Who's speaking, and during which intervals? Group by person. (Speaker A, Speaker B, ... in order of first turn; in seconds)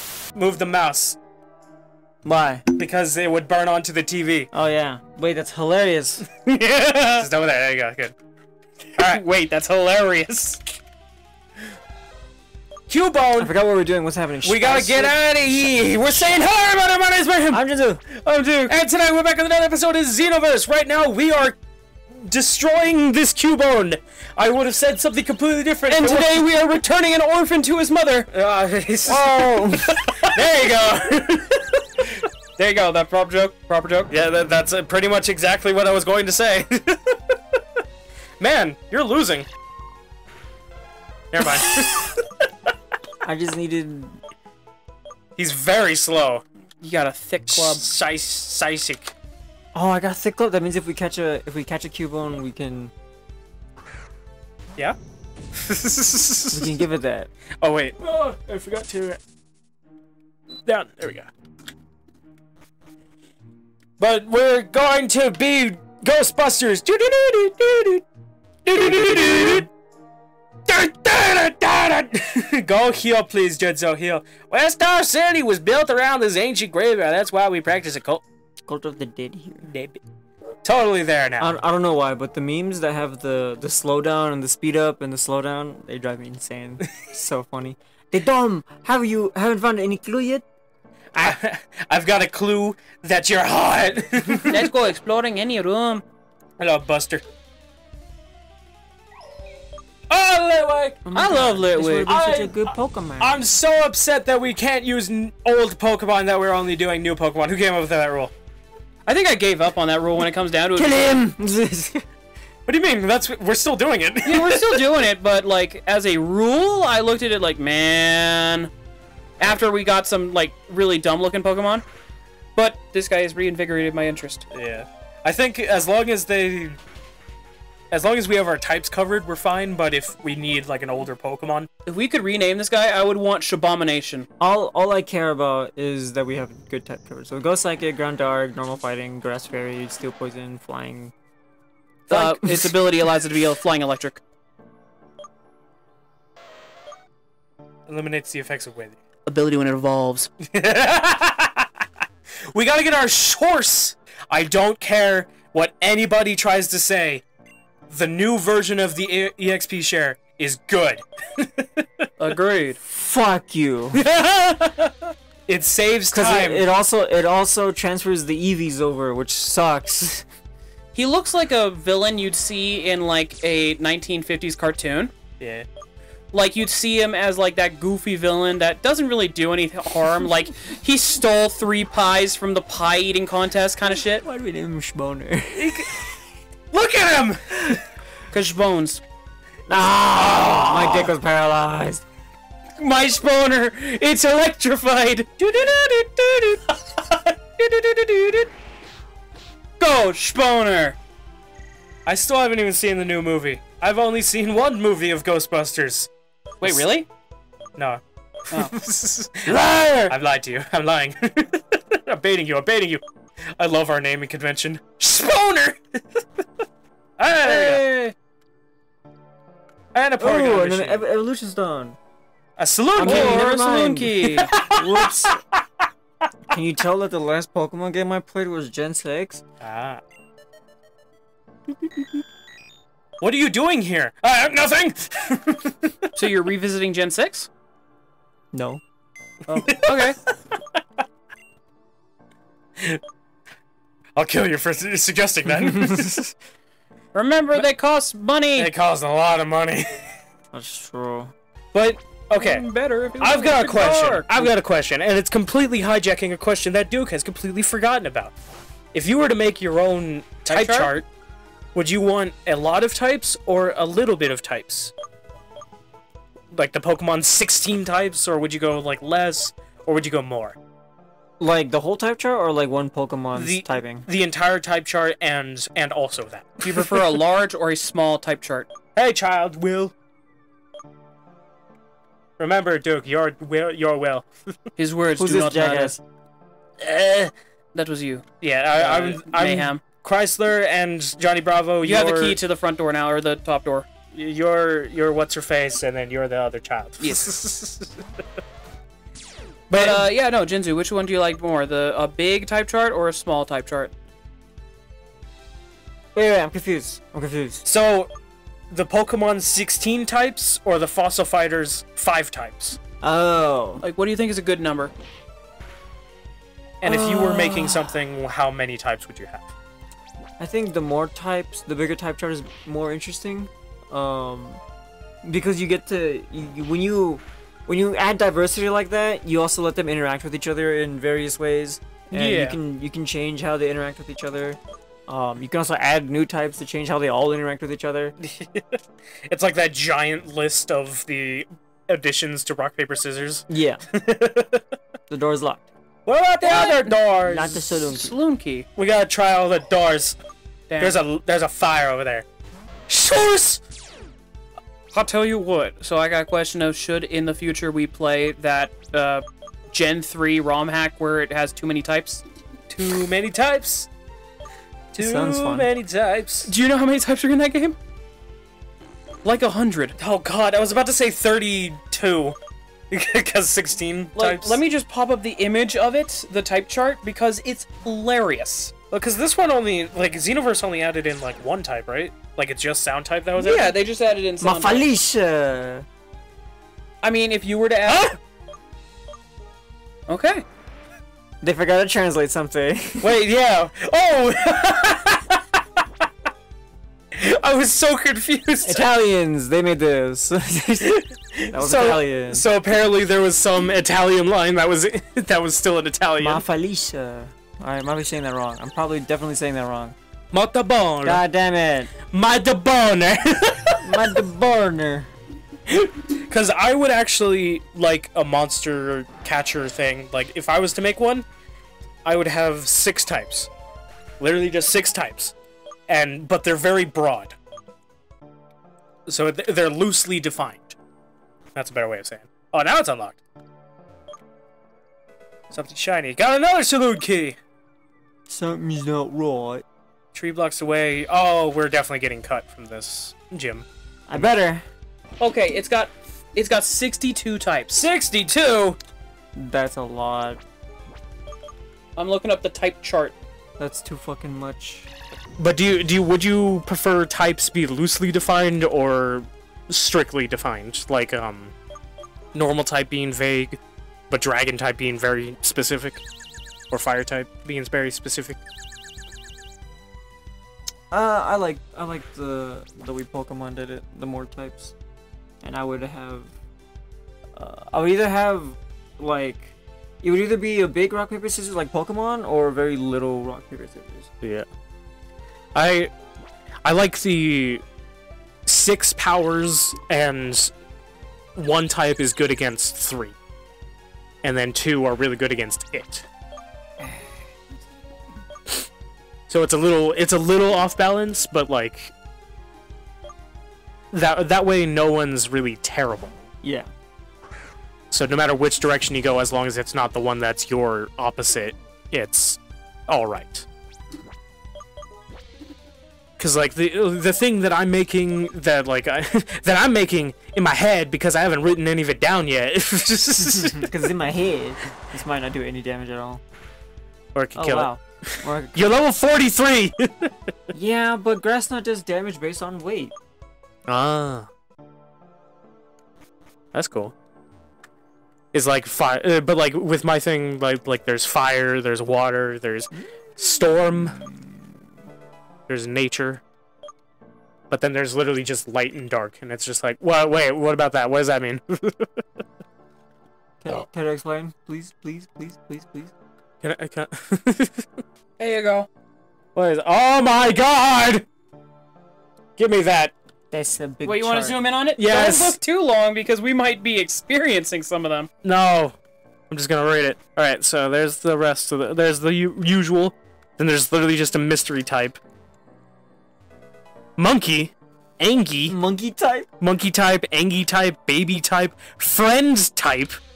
Speaker A: 0.3-1.2, 2.7-4.5, 6.9-8.1, 8.9-9.2, 12.9-13.5, 14.4-17.6, 18.7-21.6, 22.1-26.4, 28.3-31.8, 34.1-37.3, 38.4-39.5, 41.3-42.2, 45.4-46.4, 47.5-49.1, 55.5-56.8, 57.6-59.2, 60.6-61.3, 64.0-68.0, 68.7-69.7, 70.7-78.2, 79.6-80.0, 80.6-81.6, 91.1-94.7, 96.6-97.2, 100.1-101.0, 102.0-108.3, 112.7-114.8, 124.5-126.8, 127.9-131.7, 147.9-149.0, 150.4-151.7, 152.5-157.2, 157.9-161.9, 163.9-164.9, 165.5-166.7, 175.4-175.6, 185.5-185.9, 186.7-187.8, 189.7-191.1, 202.1-206.1, 207.8-213.0, 213.6-216.2, 217.2-217.8, 219.9-221.1, 222.6-225.6, 229.6-230.0, 233.2-235.9, 239.5-240.1, 244.2-246.3, 248.6-250.2, 251.7-252.7, 253.2-258.3, 258.9-261.1, 261.7-264.9, 266.5-270.6, 273.3-277.0, 278.9-279.9, 282.4-284.3, 286.8-287.3, 288.4-292.4, 294.1-297.9, 299.7-300.1, 307.6-308.1, 308.7-312.8, 316.8-319.5, 338.2-344.6, 346.1-347.6, 348.8-350.1, 350.8-352.2, 352.9-353.6, 362.7-363.9, 364.9-366.5, 370.0-372.4, 372.9-374.6, 378.9-383.7, 387.9-388.2, 393.0-395.6, 397.1-398.8, 401.4-406.4, 410.3-411.2, 412.1-414.2, 415.7-421.2, 422.0-423.5, 424.2-425.3, 425.9-427.3, 429.1-430.8, 431.5-433.2, 435.5-437.4, 440.1-444.3, 447.7-448.8, 455.4-461.5, 462.3-463.6, 464.1-466.0, 466.7-468.4, 485.5-485.9, 486.6-487.6, 488.4-490.5, 491.4-493.1, 494.2-496.0, 499.3-501.9, 503.9-506.2, 507.9-513.5, 516.2-523.8, 527.1-530.1, 533.7-534.3, 536.5-536.9, 538.3-543.9, 545.5-546.2, 547.5-551.9, 556.4-557.6, 559.3-561.0, 562.4-562.9, 564.8-565.4, 568.2-568.7, 569.3-575.0, 577.0-578.5, 579.4-583.0
Speaker B: 2.2-2.6, 4.5-6.2, 13.4-15.2, 17.5-18.0, 29.1-30.0, 43.2-44.2, 49.7-52.9, 56.5-57.3, 68.8-69.6, 78.7-79.7, 81.4-90.4, 101.0-103.4, 110.7-112.0, 134.4-141.1, 142.1-142.5, 162.8-164.0, 166.1-170.2, 184.1-185.9, 189.7-192.0, 209.5-210.1, 217.4-217.9, 220.2-222.0, 222.9-225.4, 226.5-229.4, 238.5-238.8, 245.9-246.2, 250.5-251.3, 271.4-274.0, 285.2-286.0, 306.1-307.6, 313.0-313.8, 316.8-317.9, 320.4-324.6, 325.2-338.1, 343.5-343.8, 345.1-345.7, 347.2-348.1, 364.9-365.7, 384.4-385.9, 391.4-393.1, 398.6-402.4, 406.2-409.9, 411.0-411.9, 413.8-415.1, 438.3-439.6, 444.1-444.6, 449.4-450.4, 453.6-454.9, 470.9-474.7, 475.4-476.3, 477.4-479.5, 480.0-484.1, 496.8-497.1, 506.4-506.7, 523.4-526.2, 527.4-528.6, 530.5-532.9, 553.4-555.9, 563.3-564.4, 578.5-579.3
Speaker C: 6.5-7.3, 9.0-10.6, 18.1-18.7, 25.9-28.3, 32.6-34.1, 46.8-47.8, 94.5-96.0, 101.1-102.1, 109.1-111.2, 114.2-118.7, 119.4-121.8, 122.5-124.5, 131.8-134.3, 142.1-144.2, 149.3-150.3, 162.2-162.8, 170.9-175.1, 176.3-184.2, 188.3-189.0, 192.8-196.6, 197.6-198.5, 199.8-201.0, 206.6-207.1, 217.6-218.1, 223.0-224.6, 236.2-237.5, 239.5-240.2, 247.1-248.7, 252.4-254.5, 260.4-260.9, 276.6-278.7, 284.8-285.9, 287.7-289.8, 291.8-293.9, 297.0-297.3, 299.7-303.9, 313.8-314.9, 332.1-332.6, 346.4-347.0, 347.8-348.6, 350.7-351.0, 354.9-362.2, 366.4-367.8, 369.2-369.9, 374.1-378.7, 383.4-384.9, 387.0-388.1, 390.1-390.4, 445.2-447.9, 452.0-453.1, 558.2-558.7, 563.8-568.1